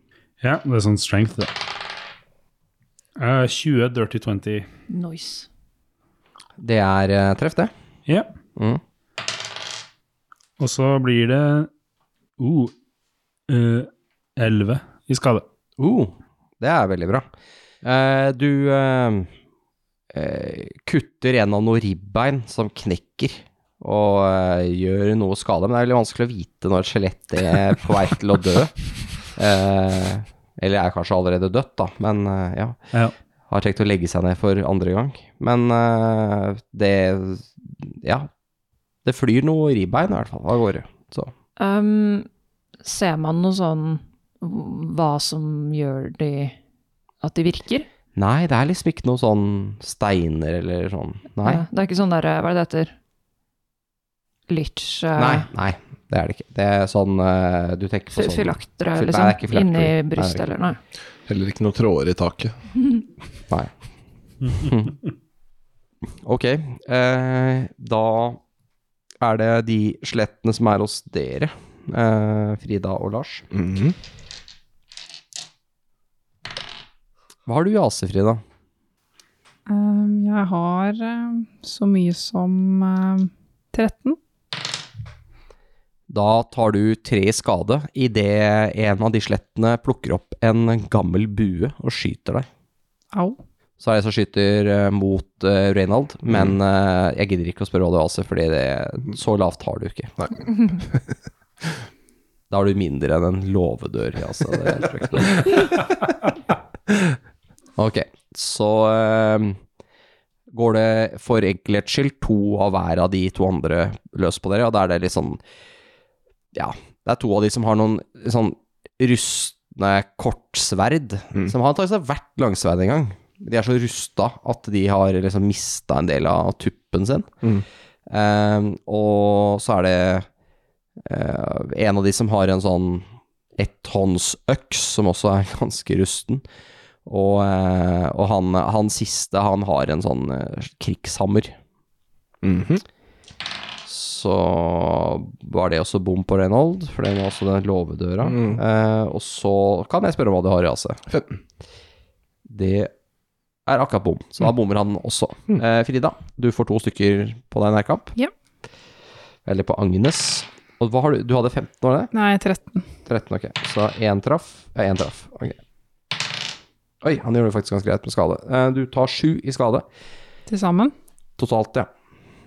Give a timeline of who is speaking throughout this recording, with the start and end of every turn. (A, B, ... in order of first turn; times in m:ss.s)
0:00.4-0:01.5 A
0:03.2-0:04.6 A
0:04.9-0:05.5 B
0:06.6-0:07.7 C
0:08.1-0:08.3 A
0:10.6-0:11.7 A
0:12.4-0:12.7 A
0:13.5-0:15.4 A
0:15.8-0:17.3 C
0:17.8-0:19.3 C
0:20.1-0:28.8 C
0:29.3-0:32.8 C
0:33.5-0:38.3 C
0:39.0-0:41.3 C
0:41.6-0:42.3 B
0:42.8-0:46.6 B
0:47.2-0:47.9 B
0:48.2-0:51.6 C
0:51.4-0:52.9 B
0:54.5-0:55.5 B
0:55.2-1:00.4 C
0:58.1-1:00.8 B
1:01.3-1:02.6 D
1:04.6-1:05.0 C
1:06.2-1:08.4 C
1:09.2-1:13.5 C
1:13.5-1:14.0 D
1:17.4-1:18.4 C
1:19.7-1:24.2 E
1:26.1-1:32.5 C
1:33.1-1:33.4 E
1:33.8-1:40.1 C
1:42.5-1:45.6 C
1:47.8-1:49.6 C
1:50.5-1:55.4 C
1:56.5-2:07.3 C
2:08.1-2:10.3 C
2:11.0-2:13.0 C
2:13.6-2:16.4 C
2:17.0-2:21.6 C
2:22.4-2:22.8 D
2:23.9-2:31.0 C
2:28.2-2:28.6 D
2:31.1-2:31.3 D
2:32.5-2:32.9 C
2:33.6-2:38.1 C
2:39.4-2:42.1 C
2:42.1-2:42.9 E
2:43.0-2:45.6 C
2:47.0-2:49.8 C
2:50.5-2:50.9 E
2:51.4-2:51.9 C